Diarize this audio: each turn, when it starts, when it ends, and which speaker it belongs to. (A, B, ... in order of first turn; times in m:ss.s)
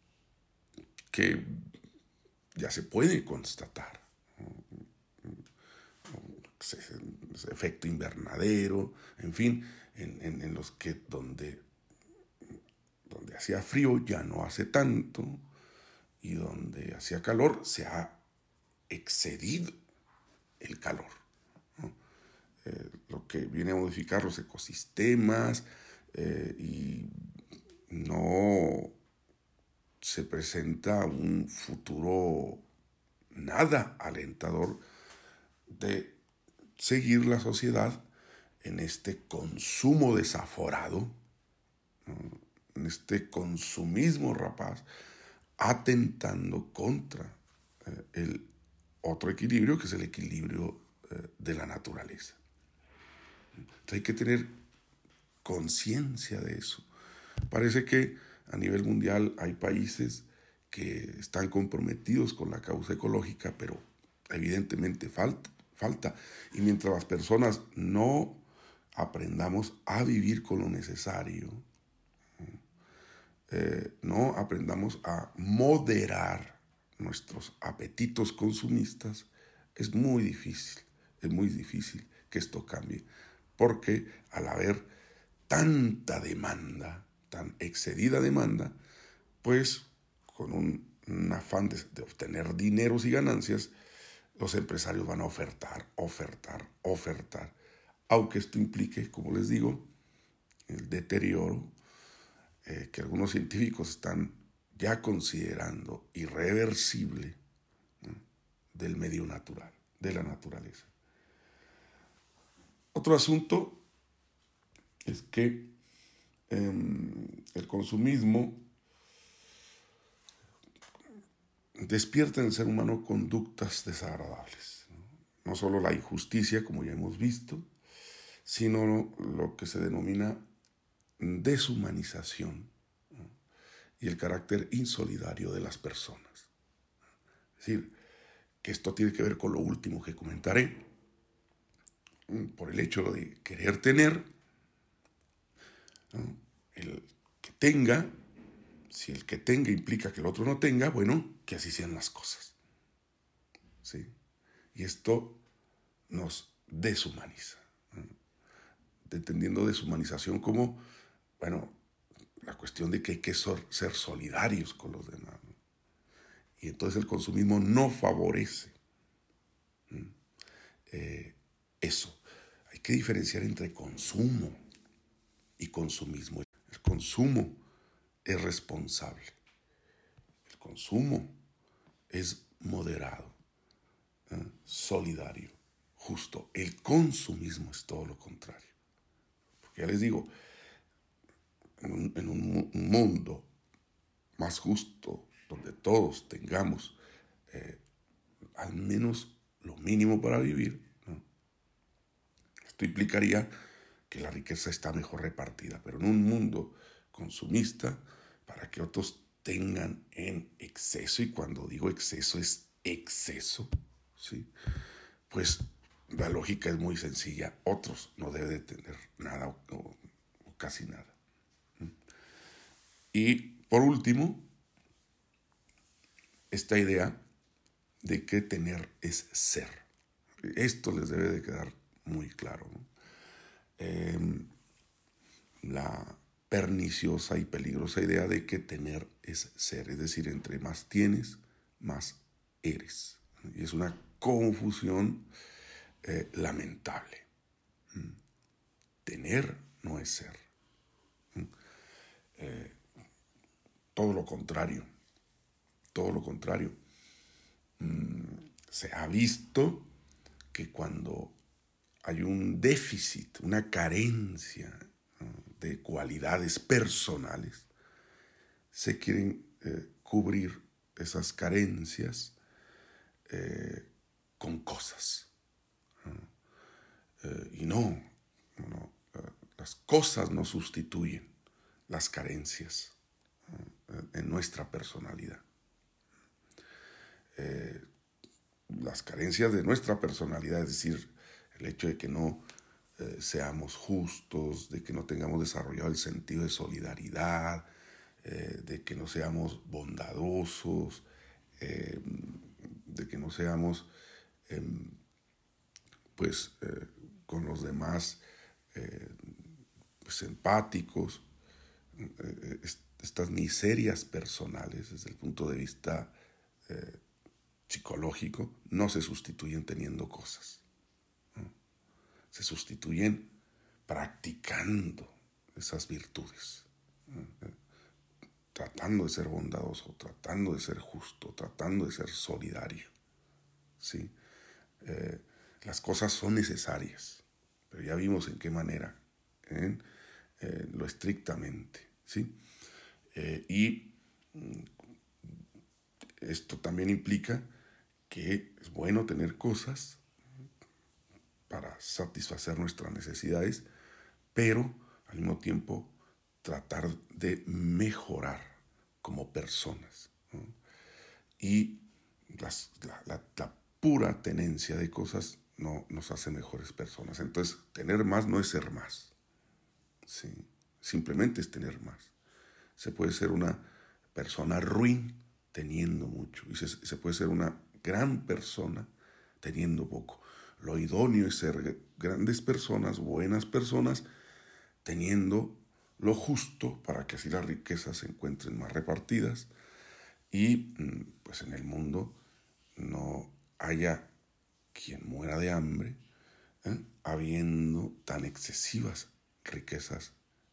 0:01.1-0:01.7 A
0:02.6-0:04.6 A
0:06.1-0:11.6 A
0:13.1-0:15.4 A
0:16.2-0:18.2 A
0:18.9-0:19.7 A
0:20.6-0:21.2 A
0:22.6-0:27.1 A
0:27.9-0:29.0 A
0:30.0-0:32.6 A
0:33.3-0:34.8 A
0:35.7-0:36.2 A
0:36.8-0:38.1 A
0:38.6-0:41.2 A
0:42.1-0:44.9 A
0:45.6-0:48.5 A
0:49.0-0:52.4 A
0:53.8-0:54.6 A
0:55.4-0:56.9 A
0:57.5-1:11.6 A
1:13.5-1:23.0 A
1:23.6-1:24.9 A
1:25.5-1:28.8 A
1:29.4-1:33.7 A
1:34.4-1:37.6 A
1:38.1-1:39.9 A
1:40.7-1:41.8 A
1:42.6-1:47.4 A
1:48.7-1:50.9 A
1:52.9-1:53.8 A
1:55.1-1:55.7 A
1:56.5-1:58.7 A
2:01.8-2:04.9 A
2:05.4-2:07.7 A
2:08.4-2:10.5 A
2:11.2-2:12.7 A
2:14.0-2:16.5 A
2:17.6-2:17.9 A
2:18.6-2:20.9 A
2:22.3-2:24.3 A
2:26.1-2:28.1 A
2:28.9-2:32.6 A
2:33.8-2:34.1 A
2:34.7-2:35.4 A
2:36.1-2:38.1 A
2:39.0-2:40.8 A
2:41.4-2:41.8 A
2:42.4-2:45.5 A
2:46.6-2:48.8 A
2:50.9-2:54.6 A
2:55.6-2:57.6 A
2:58.2-2:59.4 A
3:00.5-3:01.4 A
3:02.1-3:03.4 A
3:04.3-3:08.8 A
3:09.6-3:10.3 A
3:11.8-3:13.5 A
3:14.4-3:17.0 A
3:17.5-3:17.8 A
3:18.6-3:21.2 A
3:22.7-3:23.5 A
3:24.1-3:34.5 A
3:35.3-3:41.2 A
3:43.1-3:44.5 A
3:46.5-3:47.2 A
3:48.0-3:49.9 A
3:50.4-3:52.9 A
3:53.8-3:54.5 A
3:55.6-4:05.3 A
4:06.0-4:07.3 A
4:09.0-4:10.4 A
4:12.4-4:12.8 A
4:13.9-4:14.9 A
4:15.9-4:16.8 A
4:17.8-4:19.9 A
4:20.5-4:21.4 A
4:22.0-4:27.7 A
4:28.7-4:32.4 A
4:33.3-4:35.3 A
4:37.2-4:41.3 A
4:41.9-4:43.0 A
4:43.5-4:45.4 A
4:47.4-4:47.8 A
4:48.7-4:52.5 A
4:53.0-4:57.7 A
4:58.2-5:01.0 A
5:01.6-5:03.9 A
5:04.5-5:05.0 A
5:06.2-5:08.2 A
5:08.7-5:09.4 A
5:10.0-5:11.3 A
5:12.0-5:16.2 A
5:16.7-5:17.0 A
5:17.7-5:20.6 A
5:22.3-5:23.3 A
5:23.9-5:27.5 A
5:28.5-5:32.9 A
5:33.8-5:34.2 A
5:34.8-5:39.8 A
5:40.4-5:42.4 A
5:43.1-5:44.7 A
5:46.2-5:47.5 A
5:48.1-5:50.0 A
5:51.5-5:53.7 A
5:54.3-6:00.5 A
6:01.4-6:09.1 A
6:10.1-6:12.1 A
6:12.8-6:24.1 A
6:24.8-6:29.5 A
6:30.3-6:32.2 A
6:32.8-6:34.1 A
6:34.7-6:36.0 A
6:36.6-6:40.2 A